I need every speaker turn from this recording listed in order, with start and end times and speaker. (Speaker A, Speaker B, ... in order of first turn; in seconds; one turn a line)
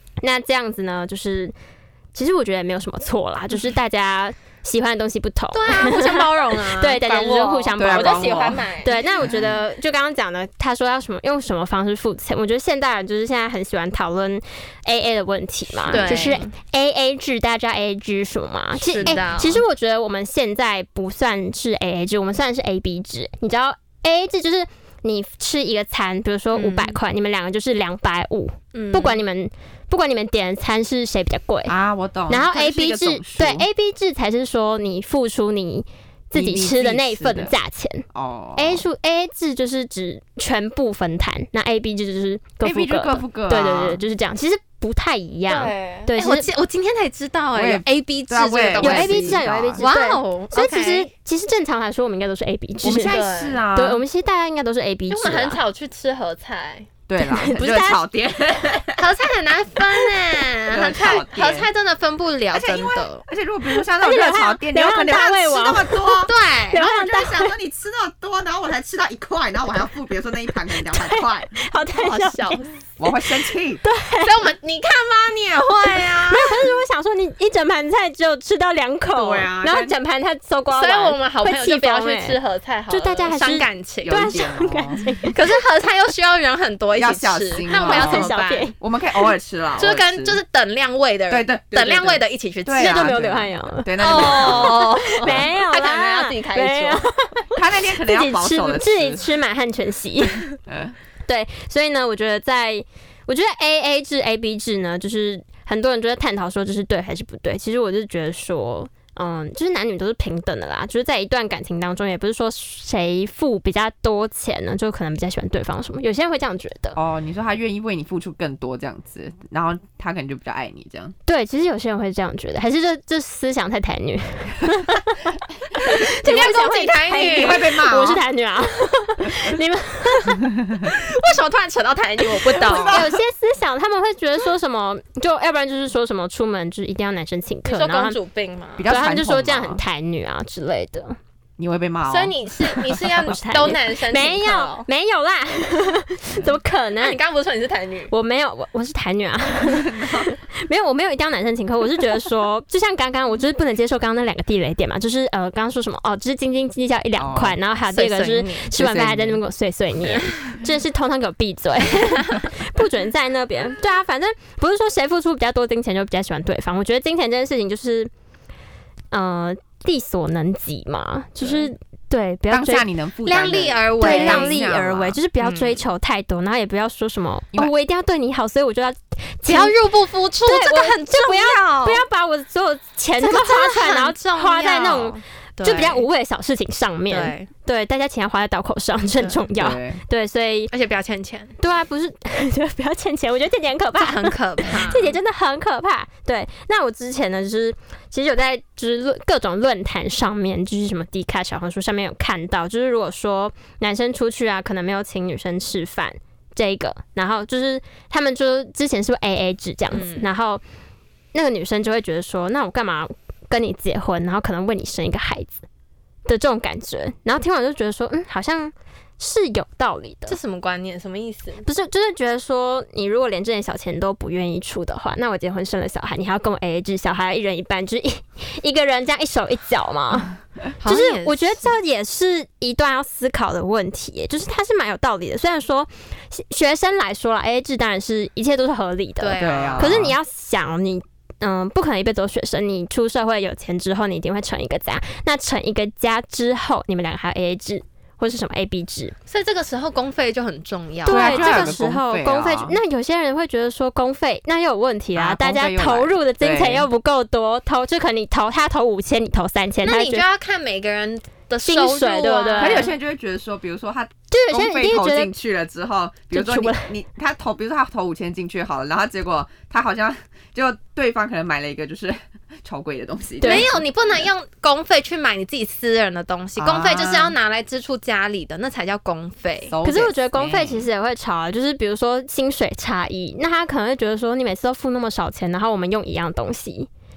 Speaker A: 0.2-1.5
Speaker A: 2.1-31.7
Speaker B: 5.5-9.0
Speaker C: 7.8-8.7
Speaker C: 9.2-9.6
Speaker C: 15.8-16.4
Speaker B: 15.9-16.5
Speaker B: 18.8-19.6
Speaker B: 26.5-27.0
Speaker B: 28.7-29.2
Speaker C: 31.7-33.7
Speaker A: 32.3-38.0
Speaker C: 36.3-37.6
Speaker C: 38.1-38.9
Speaker A: 38.6-46.5
Speaker C: 42.6-44.0
Speaker B: 45.5-51.1
Speaker C: 47.5-49.8
Speaker A: 48.8-53.2
Speaker C: 52.8-54.0
Speaker B: 52.9-53.6
Speaker A: 53.7-55.6
Speaker B: 55.1-56.9
Speaker C: 57.1-59.0
Speaker A: 57.2-58.0
Speaker B: 59.0-63.2
Speaker C: 60.7-61.7
Speaker C: 62.5-71.6
Speaker A: 64.0-67.5
Speaker B: 66.2-66.9
Speaker A: 70.7-72.6
Speaker B: 72.0-72.7
Speaker C: 73.0-73.8
Speaker A: 73.8-74.4
Speaker B: 74.2-76.7
Speaker A: 76.3-82.4
Speaker C: 79.2-80.0
Speaker B: 80.7-84.5
Speaker A: 82.9-85.5
Speaker C: 84.0-85.0
Speaker B: 85.3-88.7
Speaker C: 87.0-90.4
Speaker A: 87.7-88.8
Speaker B: 89.8-93.1
Speaker C: 91.3-95.5
Speaker A: 92.8-100.5
Speaker B: 94.0-97.1
Speaker C: 97.5-99.3
Speaker C: 100.7-101.0
Speaker A: 101.3-117.0
Speaker C: 117.0-121.1
Speaker A: 121.3-130.4
Speaker B: 125.9-127.7
Speaker C: 127.2-128.2
Speaker C: 130.5-130.9
Speaker B: 130.9-133.1
Speaker C: 132.6-133.2
Speaker A: 132.7-138.2
Speaker B: 137.7-138.8
Speaker C: 138.8-139.8
Speaker A: 138.9-141.2
Speaker C: 141.6-143.1
Speaker B: 142.1-144.9
Speaker A: 143.3-147.2
Speaker B: 147.0-148.1
Speaker A: 148.1-168.1
Speaker C: 149.6-150.3
Speaker C: 157.2-157.6
Speaker B: 157.9-158.7
Speaker C: 158.8-159.4
Speaker B: 161.9-162.4
Speaker A: 169.1-172.9
Speaker C: 172.5-175.2
Speaker B: 173.2-174.6
Speaker A: 174.0-179.8
Speaker B: 175.4-175.8
Speaker B: 179.5-182.0
Speaker A: 180.4-190.7
Speaker B: 183.2-186.1
Speaker B: 187.1-187.5
Speaker C: 189.6-190.0
Speaker B: 190.7-191.6
Speaker A: 191.6-210.6
Speaker B: 194.0-195.2
Speaker B: 209.9-210.3
Speaker A: 211.3-215.7
Speaker A: 216.3-220.4
Speaker B: 220.3-221.7
Speaker A: 221.6-230.3
Speaker B: 230.8-231.7
Speaker A: 230.8-249.2
Speaker B: 239.2-240.0
Speaker C: 239.4-240.2
Speaker B: 249.3-251.8
Speaker A: 251.1-260.2
Speaker C: 251.1-252.8
Speaker C: 255.2-256.9
Speaker B: 259.8-262.9
Speaker A: 261.6-262.9
Speaker C: 262.6-273.8
Speaker A: 264.3-265.3
Speaker A: 266.3-266.9
Speaker A: 273.4-273.8
Speaker B: 273.4-279.8
Speaker C: 276.6-277.4
Speaker C: 279.7-280.9
Speaker A: 279.8-286.9